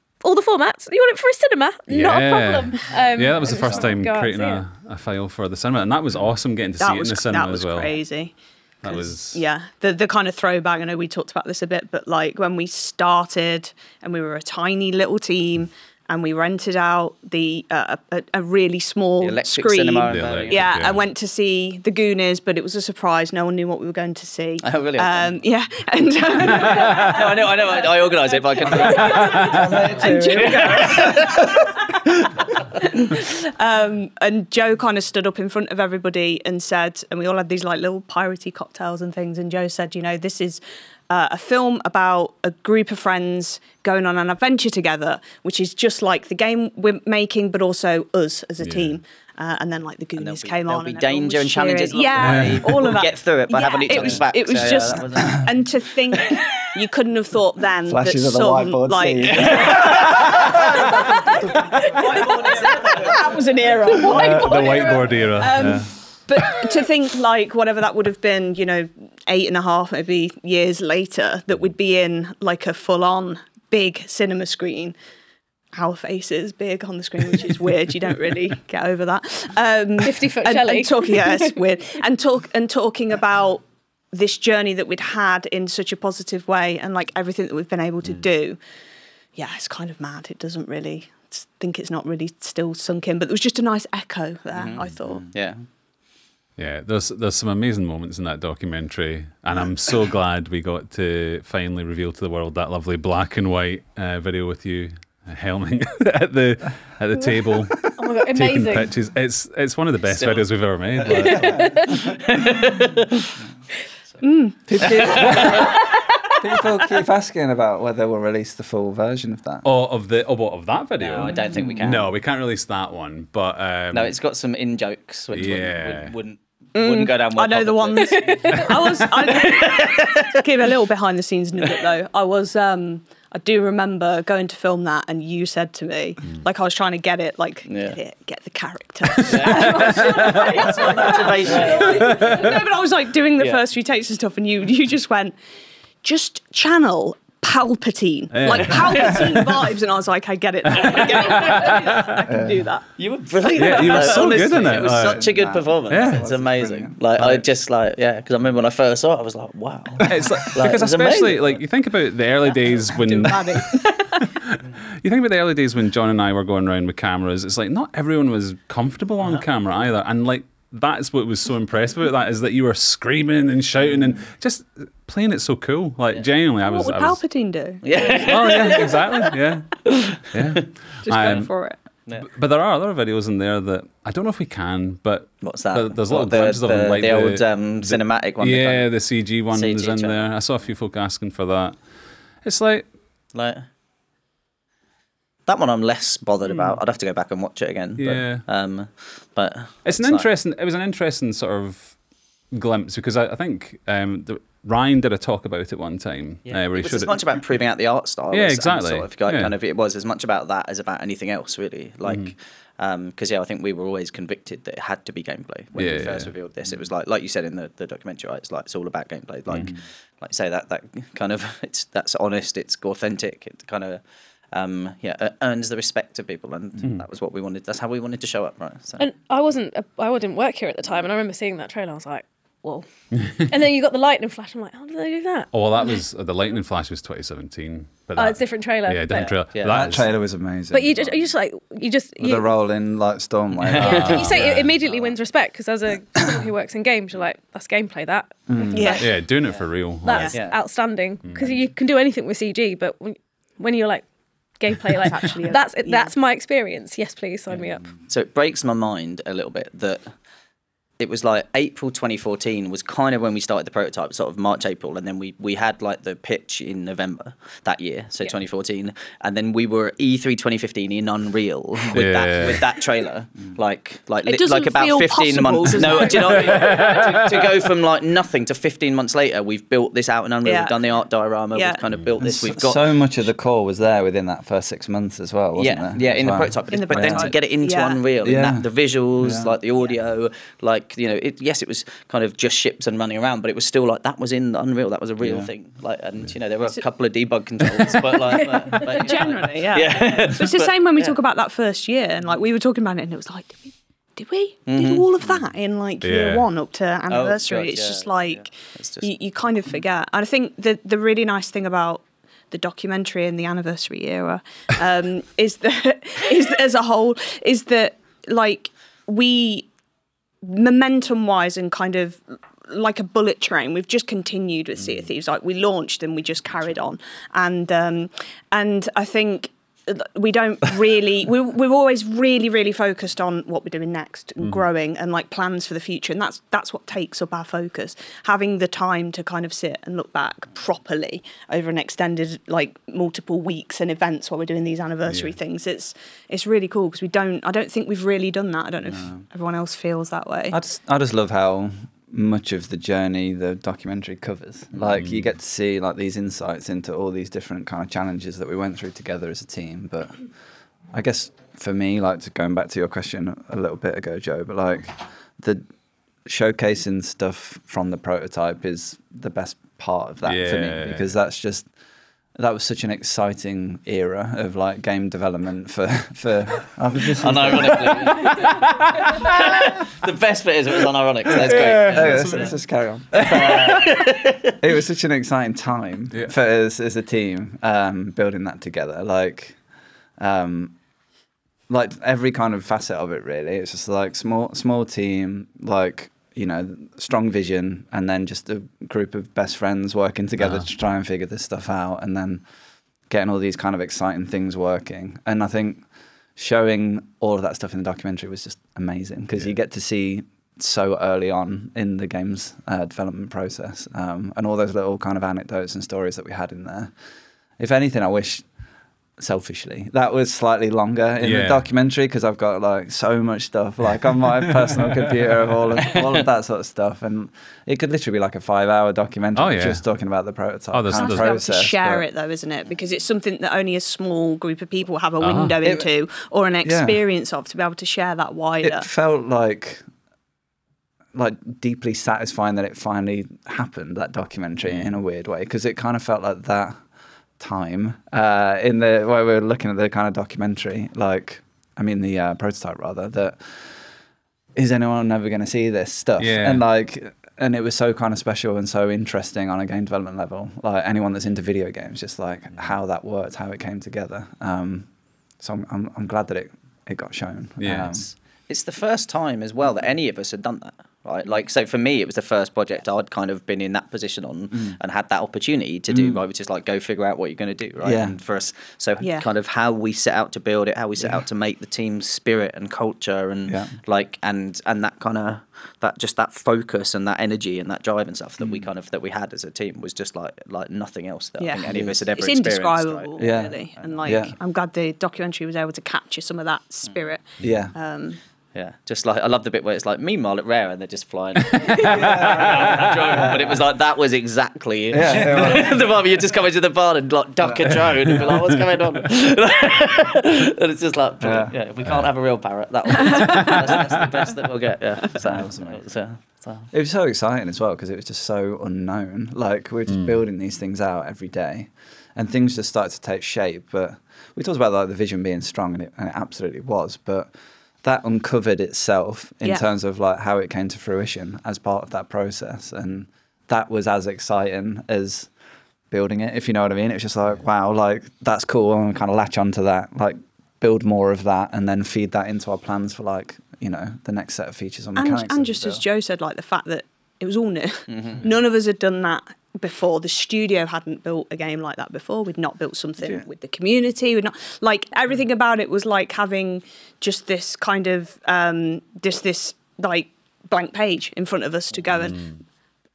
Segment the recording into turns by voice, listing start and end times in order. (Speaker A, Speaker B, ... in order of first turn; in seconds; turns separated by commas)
Speaker A: 0.2-4.6, Speaker B: 1.9-8.0, Speaker C: 6.8-31.7, Speaker B: 8.8-9.4, Speaker D: 19.2-20.8, Speaker B: 20.1-21.1, Speaker D: 24.6-25.4, Speaker D: 26.5-31.4, Speaker B: 26.8-27.1, Speaker B: 29.0-29.6, Speaker E: 29.5-32.3, Speaker C: 32.8-74.9, Speaker B: 48.6-48.9, Speaker D: 50.2-55.6, Speaker B: 52.2-52.8, Speaker D: 56.1-56.5, Speaker E: 57.9-60.6, Speaker D: 59.2-60.6, Speaker B: 59.6-60.0, Speaker D: 61.5-64.0, Speaker B: 64.0-65.9, Speaker C: 75.7-88.6, Speaker A: 80.0-81.5, Speaker C: 89.3-95.3, Speaker D: 94.5-95.6, Speaker B: 96.6-111.8, Speaker A: 107.9-108.9, Speaker D: 110.1-110.5, Speaker A: 111.1-111.9, Speaker E: 111.3-111.6, Speaker D: 111.9-113.3, Speaker C: 114.2-115.4, Speaker E: 114.7-115.8, Speaker D: 114.8-115.9, Speaker B: 115.3-115.5, Speaker E: 116.4-119.7, Speaker B: 119.6-124.1, Speaker D: 121.0-122.1, Speaker E: 121.6-121.9, Speaker D: 123.9-130.3, Speaker B: 125.3-126.1, Speaker C: 126.7-145.3, Speaker A: 128.2-128.6, Speaker D: 137.7-138.0, Speaker D: 139.2-142.2, Speaker B: 139.7-140.5, Speaker B: 141.8-142.5, Speaker C: 146.0-152.8, Speaker B: 148.3-149.6, Speaker B: 150.7-152.3, Speaker E: 152.3-152.6, Speaker D: 153.0-161.6, Speaker B: 153.5-155.3, Speaker C: 153.7-154.9, Speaker E: 154.3-157.4, Speaker B: 155.9-156.2, Speaker B: 160.0-177.2, Speaker C: 162.9-164.3, Speaker C: 176.6-178.9, Speaker D: 177.8-179.2, Speaker B: 178.2-179.7, Speaker D: 179.8-180.7, Speaker B: 180.3-181.5, Speaker C: 181.0-181.8, Speaker B: 182.2-191.9, Speaker D: 185.4-190.4, Speaker B: 192.4-192.9, Speaker D: 193.3-193.7, Speaker D: 195.5-200.3, Speaker B: 196.4-196.8, Speaker B: 198.0-198.4, Speaker B: 199.8-207.3, Speaker D: 206.4-229.1, Speaker B: 208.3-209.5, Speaker B: 212.1-212.3, Speaker B: 215.8-216.3, Speaker A: 229.0-235.5, Speaker B: 235.5-240.1, Speaker A: 238.2-239.4, Speaker D: 239.1-240.0, Speaker E: 239.7-241.1, Speaker A: 240.7-242.5, Speaker E: 242.2-244.3, Speaker B: 243.7-244.7, Speaker A: 243.8-249.1, Speaker E: 248.5-248.9, Speaker C: 248.7-249.1, Speaker B: 248.9-250.3, Speaker A: 250.0-254.1, Speaker C: 250.1-250.3, Speaker B: 251.2-251.6, Speaker A: 254.6-257.9, Speaker C: 255.1-256.1, Speaker D: 258.1-260.1, Speaker D: 261.0-282.9, Speaker B: 271.9-272.7, Speaker C: 274.2-276.8, Speaker B: 276.4-277.4, Speaker C: 280.4-280.7, Speaker C: 281.5-281.8, Speaker E: 282.2-287.3, Speaker D: 285.5-301.2, Speaker C: 286.7-288.0, Speaker E: 288.2-288.6, Speaker E: 289.2-289.5, Speaker E: 295.2-295.5, Speaker C: 298.3-319.7, Speaker D: 304.7-305.1, Speaker B: 306.0-306.5, Speaker D: 307.1-309.1, Speaker C: 320.4-350.6, Speaker B: 345.1-345.4, Speaker E: 350.5-360.2, Speaker B: 354.8-355.2, Speaker E: 360.9-365.6, Speaker E: 366.2-371.7, Speaker B: 370.2-371.1, Speaker E: 372.3-378.3, Speaker D: 377.2-378.4, Speaker B: 378.2-379.4, Speaker D: 379.2-382.5, Speaker B: 381.4-382.6, Speaker E: 381.8-383.9, Speaker D: 383.2-384.5, Speaker E: 384.6-389.6, Speaker E: 390.2-390.8, Speaker E: 391.7-402.4, Speaker B: 400.4-400.6, Speaker E: 403.1-416.9, Speaker E: 417.6-418.5, Speaker E: 419.2-432.1, Speaker B: 421.2-421.6, Speaker B: 429.4-429.8, Speaker B: 430.7-431.3, Speaker C: 430.9-438.8, Speaker B: 435.2-435.6, Speaker E: 435.6-435.9, Speaker E: 436.6-437.0, Speaker E: 438.6-439.8, Speaker E: 441.1-446.8, Speaker E: 447.4-453.6, Speaker E: 454.6-468.0, Speaker B: 456.2-456.6, Speaker B: 467.6-468.0, Speaker D: 468.0-494.1, Speaker E: 475.9-476.2, Speaker E: 477.8-478.1, Speaker C: 479.0-479.3, Speaker E: 483.5-483.7, Speaker E: 488.4-488.7, Speaker C: 491.4-498.2, Speaker E: 491.7-492.0, Speaker E: 493.2-494.3, Speaker E: 497.4-497.7, Speaker D: 498.5-516.7, Speaker B: 501.5-502.9, Speaker E: 501.9-503.6, Speaker E: 504.9-505.8, Speaker E: 507.4-507.7, Speaker E: 511.2-511.5, Speaker C: 513.0-513.6, Speaker E: 515.2-515.8, Speaker E: 516.7-527.3, Speaker E: 527.8-535.3, Speaker E: 535.9-545.8, Speaker C: 545.0-562.4, Speaker D: 547.9-548.2, Speaker E: 553.0-553.2